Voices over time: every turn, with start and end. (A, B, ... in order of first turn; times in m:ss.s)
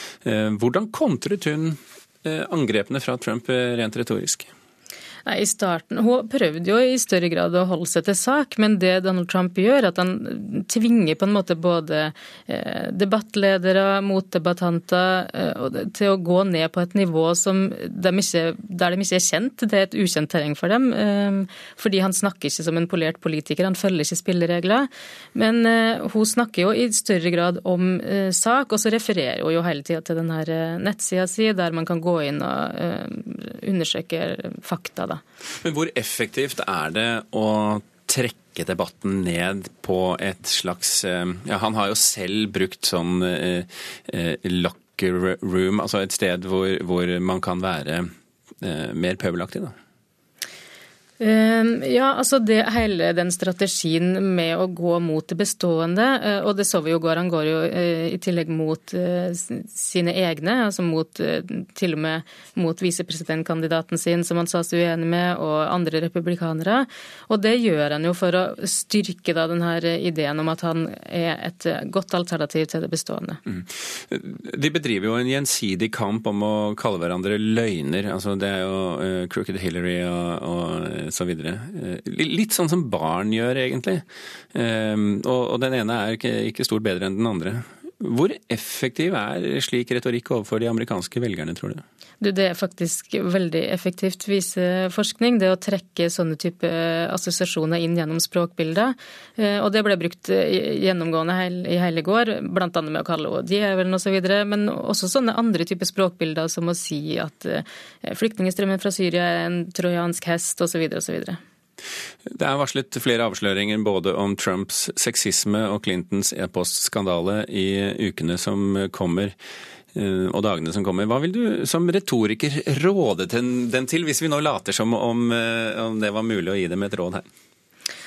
0:00.2-0:04.5 A
0:05.2-0:35.2 B
0:35.6-0:48.1 A
0:48.6-0:49.7 A
0:51.2-1:13.4 B
1:13.5-1:31.8 A
1:32.2-1:51.4 B
1:52.3-1:59.3 A
1:59.9-2:07.2 A